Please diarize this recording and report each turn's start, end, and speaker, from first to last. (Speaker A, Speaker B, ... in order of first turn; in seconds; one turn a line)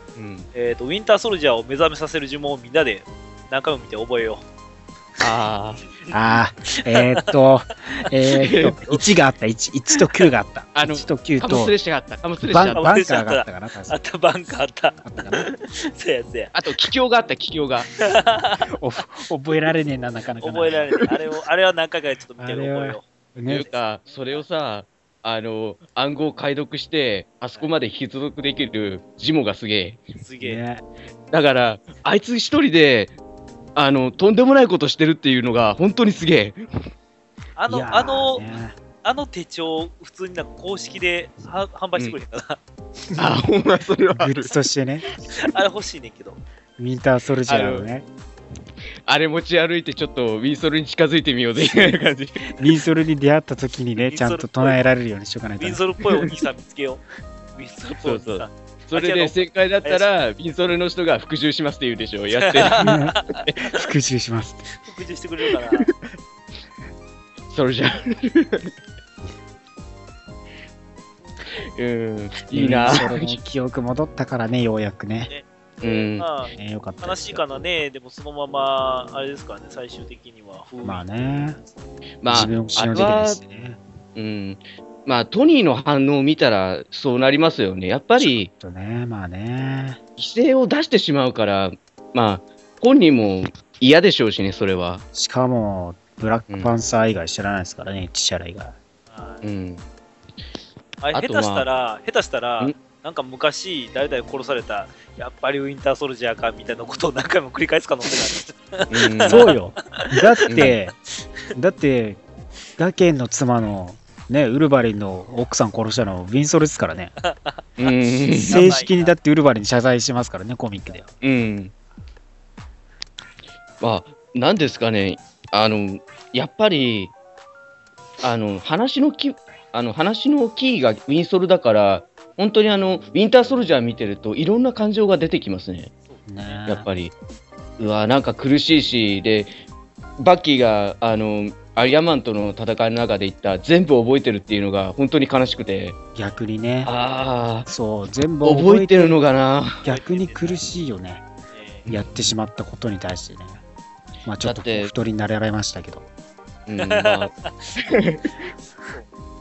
Speaker A: 0.2-0.5
Speaker B: 0.5-4.5
Speaker A: 5.2-5.8
Speaker C: 6.1-11.7
Speaker B: 6.7-7.3
Speaker A: 8.3-9.0
Speaker A: 10.8-12.9
Speaker C: 12.5-14.0
Speaker B: 12.7-16.6
Speaker C: 15.1-15.5
Speaker A: 16.5-17.9
Speaker B: 18.0-18.7
Speaker C: 18.8-21.0
Speaker B: 20.4-24.4
Speaker C: 22.4-23.7
Speaker A: 23.5-30.0
Speaker B: 30.2-30.6
Speaker C: 30.4-30.8
Speaker A: 31.3-33.1
Speaker A: 33.8-36.6
Speaker B: 37.6-38.4
Speaker C: 37.7-38.8
Speaker B: 39.0-42.6
Speaker A: 43.2-44.5
Speaker C: 44.1-45.0
Speaker B: 45.5-46.4
Speaker C: 46.8-48.1
Speaker A: 47.5-47.9
Speaker A: 49.1-52.5
Speaker C: 52.6-55.8
Speaker B: 54.1-54.9
Speaker B: 55.6-57.0
Speaker B: 57.5-60.1
Speaker A: 58.0-63.0
Speaker B: 62.4-63.7
Speaker C: 62.8-63.2
Speaker C: 63.7-64.7
Speaker B: 64.8-65.9
Speaker A: 67.5-68.7
Speaker A: 71.5-73.3
Speaker C: 72.5-75.3
Speaker B: 75.3-81.5
Speaker A: 75.8-76.3
Speaker C: 76.5-77.4
Speaker C: 80.8-81.6
Speaker A: 82.2-83.4
Speaker C: 82.3-83.8
Speaker A: 84.2-88.5
Speaker C: 88.2-90.0
Speaker A: 90.2-95.0
Speaker C: 95.1-98.8
Speaker B: 99.1-99.4
Speaker A: 99.4-99.8
Speaker B: 101.0-110.7
Speaker A: 101.1-101.7
Speaker A: 108.9-109.5
Speaker C: 109.3-111.0
Speaker A: 110.5-110.7
Speaker C: 111.6-112.2
Speaker C: 112.8-117.1
Speaker B: 117.2-117.9
Speaker A: 117.8-118.8
Speaker C: 118.4-121.1
Speaker B: 118.5-119.1
Speaker A: 121.2-121.7
Speaker A: 123.8-127.1
Speaker A: 128.2-135.9
Speaker B: 136.1-136.6
Speaker C: 136.3-136.9
Speaker A: 136.7-137.1
Speaker A: 137.8-139.5
Speaker A: 140.2-146.0
Speaker C: 146.2-146.9
Speaker A: 146.8-147.7
Speaker C: 147.7-149.2
Speaker A: 148.4-149.8
Speaker C: 149.8-151.2
Speaker B: 149.9-150.6
Speaker B: 151.5-151.9
Speaker C: 151.9-153.6
Speaker C: 154.2-156.1
Speaker A: 154.4-154.9
Speaker A: 156.7-158.5
Speaker B: 156.8-157.8
Speaker B: 158.8-159.1